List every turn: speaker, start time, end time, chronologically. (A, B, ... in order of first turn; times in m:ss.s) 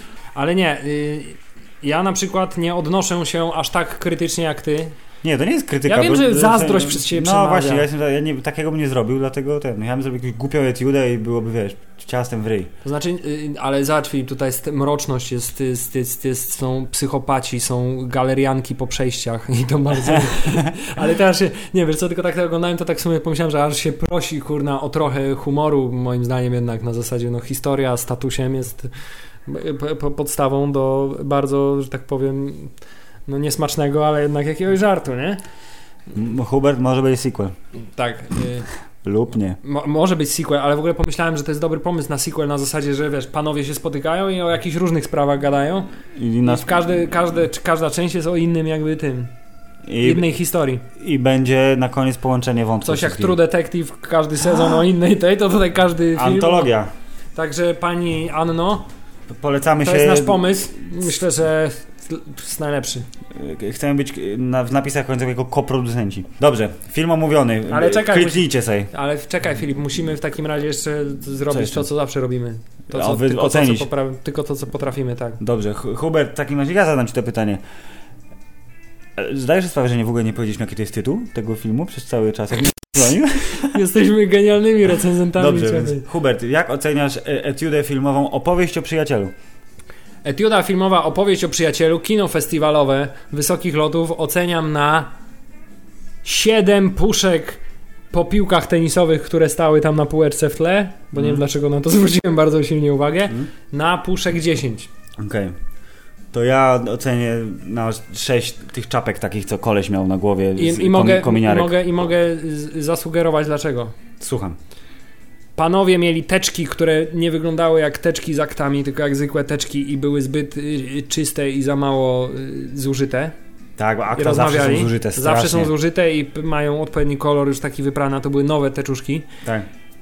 0:00.4-0:05.0 A
0:05.2-0:12.7 B
0:05.9-0:07.9 A
0:12.8-0:28.9 A
0:29.5-0:32.7 A
0:33.3-0:35.4 A
0:36.1-0:37.5 B
0:38.0-0:38.7 A
0:39.0-0:39.6 B
0:39.6-0:45.9 A
0:46.2-0:47.1 B
0:46.4-0:49.3 A
0:49.8-0:50.3 B
0:50.0-0:50.8 A
0:51.0-0:53.4 B
0:52.8-0:56.7 A
0:56.2-0:56.9 B
0:57.4-0:58.9 A
0:59.3-1:00.7 B
0:59.8-1:03.1 A
1:03.3-1:08.9 B
1:07.7-1:15.4 A
1:11.5-1:11.9 B
1:12.9-1:13.9 B
1:15.4-1:17.6 B
1:19.2-1:23.8 B
1:23.6-1:26.1 A
1:25.4-1:29.3 B
1:30.2-1:35.1 A
1:36.2-1:44.9 A
1:41.2-1:41.4 B
1:45.2-1:45.6 B
1:46.3-1:51.8 B
1:50.6-1:53.9 A
1:54.2-1:54.6 B
1:55.6-2:03.4 A
2:03.8-2:05.7 B
2:04.2-2:09.3 A